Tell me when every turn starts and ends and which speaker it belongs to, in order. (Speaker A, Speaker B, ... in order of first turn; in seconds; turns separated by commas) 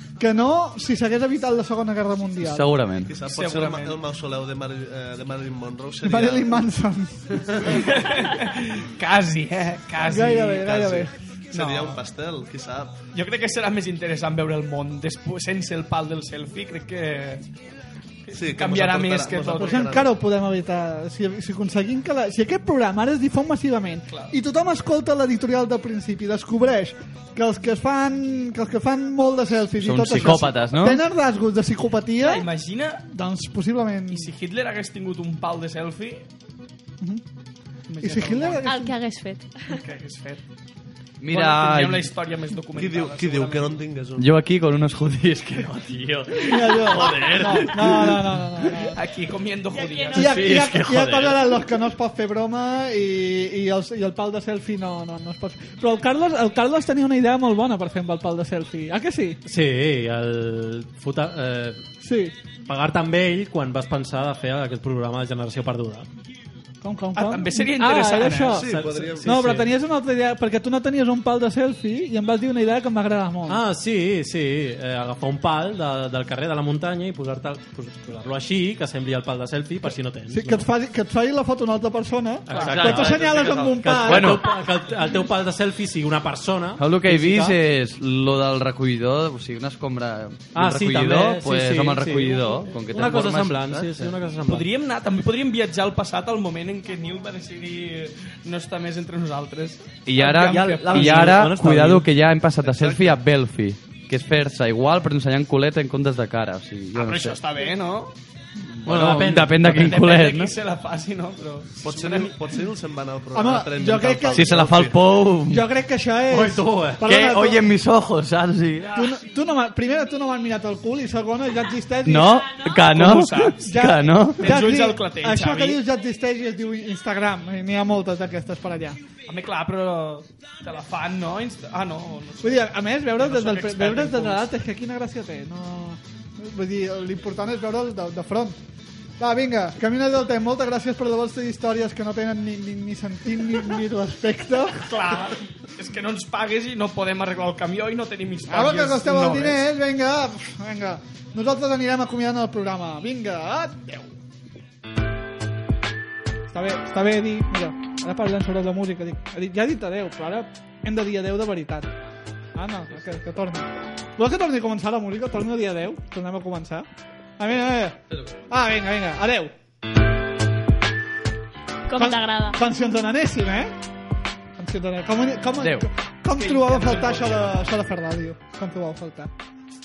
Speaker A: 0.2-2.7, Speaker B: 2.4-3.1, Speaker C: 3.1-6.5, Speaker D: 3.2-4.0, Speaker A: 6.0-7.3, Speaker D: 7.7-10.6, Speaker A: 10.0-11.1, Speaker C: 10.3-13.0, Speaker D: 11.5-12.0, Speaker D: 13.1-17.4, Speaker D: 18.2-19.9, Speaker C: 18.3-20.1, Speaker A: 19.6-32.5, Speaker B: 29.8-31.0, Speaker D: 32.2-33.0, Speaker A: 33.1-34.3, Speaker D: 34.1-36.2, Speaker D: 37.9-38.6, Speaker A: 38.0-38.9, Speaker E: 38.6-39.8, Speaker D: 39.7-40.4, Speaker B: 41.2-42.1, Speaker D: 41.3-43.8, Speaker C: 42.7-44.3, Speaker B: 44.2-48.3, Speaker A: 46.4-49.0, Speaker D: 48.9-50.4, Speaker E: 49.7-50.4, Speaker A: 50.1-59.4, Speaker B: 50.2-51.4, Speaker F: 59.5-61.8, Speaker A: 62.0-62.3, Speaker F: 62.6-66.1, Speaker A: 66.8-68.7, Speaker D: 67.1-68.6, Speaker C: 68.5-69.4, Speaker F: 68.6-69.7, Speaker A: 69.2-73.6, Speaker F: 73.5-80.7, Speaker A: 80.3-84.4, Speaker F: 82.5-87.5, Speaker D: 82.5-83.5, Speaker B: 82.6-84.5, Speaker B: 86.8-94.0, Speaker F: 90.5-94.7, Speaker D: 94.4-101.5, Speaker B: 100.0-107.4, Speaker F: 100.5-102.1, Speaker C: 102.6-103.2, Speaker D: 106.9-108.1, Speaker B: 108.8-110.5, Speaker F: 108.8-110.0, Speaker D: 109.2-112.3, Speaker C: 111.8-115.1, Speaker A: 113.3-114.7, Speaker B: 114.3-115.6, Speaker A: 115.5-117.7, Speaker F: 116.3-117.0, Speaker B: 117.0-119.0, Speaker A: 119.0-122.4, Speaker B: 122.0-124.5, Speaker E: 122.3-122.9, Speaker D: 122.9-123.7, Speaker A: 123.7-129.0, Speaker D: 124.4-125.8, Speaker D: 129.3-134.5, Speaker A: 132.4-138.6, Speaker A: 139.2-145.0, Speaker D: 144.9-149.6, Speaker A: 148.5-154.1, Speaker A: 156.5-161.9, Speaker A: 162.6-166.9, Speaker A: 167.4-169.5, Speaker E: 171.9-172.6, Speaker A: 172.0-173.7, Speaker A: 174.6-179.3, Speaker B: 175.6-175.9, Speaker D: 176.3-177.7